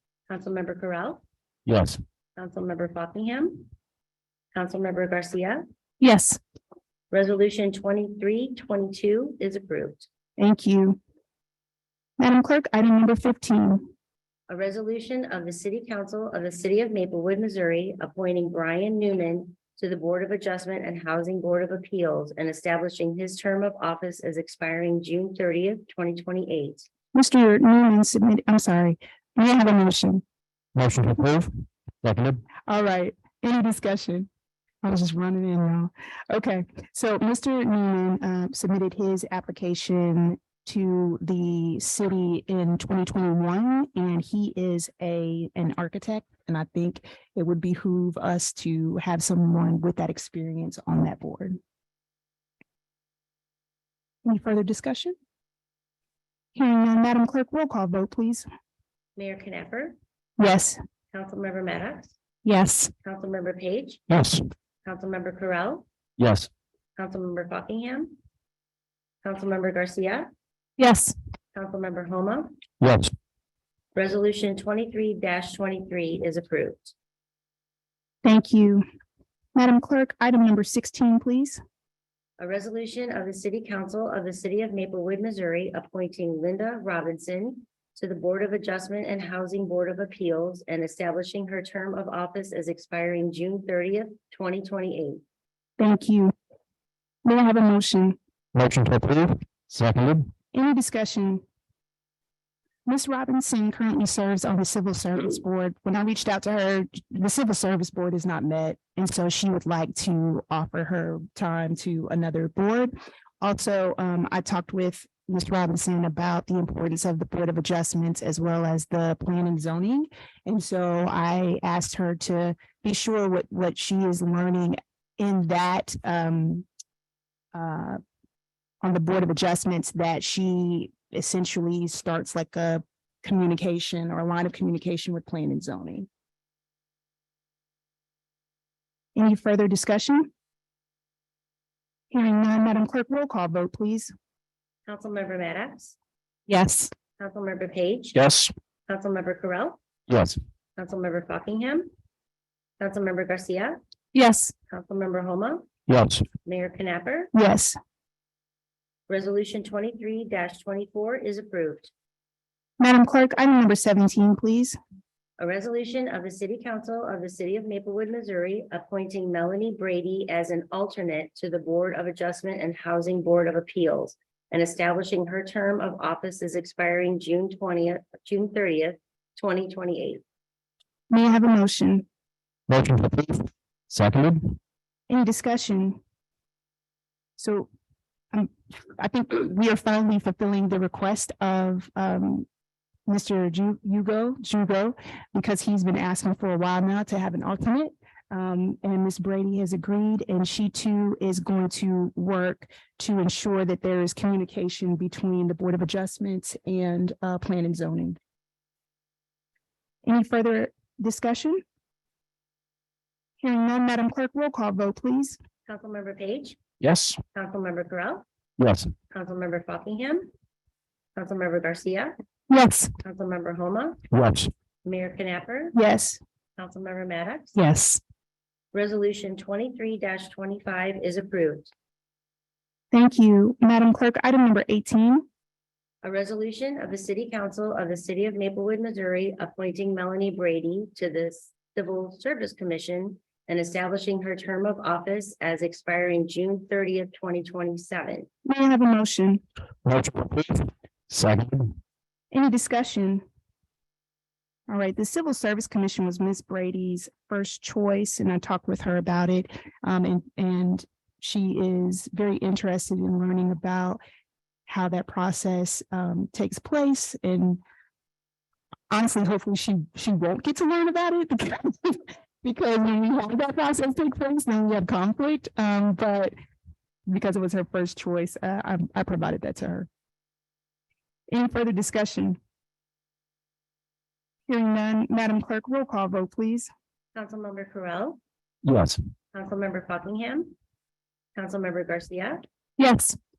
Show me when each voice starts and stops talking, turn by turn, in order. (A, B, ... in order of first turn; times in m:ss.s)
0:00.3-0:01.2 A
0:01.7-0:02.0 B
0:02.4-0:03.7 A
0:04.6-0:05.6 A
0:06.0-0:06.4 C
0:07.1-0:10.1 A
0:10.4-0:11.0 C
0:12.2-0:13.9 C
0:14.5-0:26.9 A
0:27.1-0:30.2 C
0:30.8-0:31.5 B
0:32.0-0:32.4 B
0:32.7-0:34.3 C
0:34.8-0:51.6 C
0:54.2-0:55.2 C
0:56.6-0:58.5 C
0:59.2-1:00.0 A
1:00.4-1:00.8 C
1:01.1-1:02.1 A
1:02.4-1:02.9 C
1:03.0-1:04.0 A
1:04.1-1:04.4 B
1:04.8-1:05.8 A
1:06.2-1:06.5 B
1:07.0-1:08.2 A
1:09.2-1:10.3 A
1:10.8-1:11.1 C
1:11.5-1:12.6 A
1:12.8-1:13.1 B
1:14.0-1:16.9 A
1:18.2-1:18.8 C
1:19.6-1:21.6 C
1:22.4-1:35.2 A
1:35.8-1:36.3 C
1:37.2-1:38.2 C
1:38.6-1:40.3 B
1:40.5-1:41.4 C
1:42.9-2:06.7 C
2:07.5-2:08.0 C
2:08.8-2:16.1 C
2:19.2-2:20.3 C
2:22.1-2:24.1 C
2:24.9-2:26.0 A
2:26.5-2:26.9 C
2:27.2-2:28.2 A
2:28.2-2:28.5 B
2:28.9-2:29.8 A
2:30.1-2:30.4 B
2:30.8-2:31.9 A
2:32.8-2:33.8 A
2:34.2-2:34.5 C
2:34.7-2:35.7 A
2:35.9-2:36.2 B
2:36.4-2:37.3 A
2:37.3-2:37.8 C
2:39.1-2:41.9 A
2:42.8-2:44.8 C
2:45.4-3:00.2 A
3:01.1-3:02.0 C
3:02.7-3:04.6 B
3:05.1-3:06.0 C
3:07.4-3:07.7 C
3:08.3-3:12.5 C
3:13.1-3:28.2 C
3:30.0-3:31.6 C
3:33.4-3:35.4 C
3:35.7-3:36.6 A
3:36.8-3:37.2 B
3:37.3-3:38.2 A
3:38.6-3:38.9 B
3:39.1-3:40.3 A
3:41.2-3:42.1 A
3:42.5-3:42.9 C
3:43.0-3:44.0 A
3:44.1-3:44.5 B
3:44.8-3:45.8 A
3:45.7-3:46.2 C
3:46.6-3:47.6 A
3:47.6-3:48.0 C
3:48.7-3:51.7 A
3:52.9-3:55.3 C
3:56.0-4:08.3 A
4:08.4-4:09.4 C
4:09.8-4:11.8 B
4:12.3-4:13.2 C
4:14.7-4:24.0 C
4:24.7-4:27.6 C
4:28.9-4:36.3 C
4:37.1-4:39.9 C
4:41.3-4:42.4 C
4:44.5-4:46.7 C
4:47.2-4:48.2 A
4:48.6-4:49.0 B
4:49.3-4:50.6 A
4:51.4-4:52.4 A
4:52.8-4:53.2 C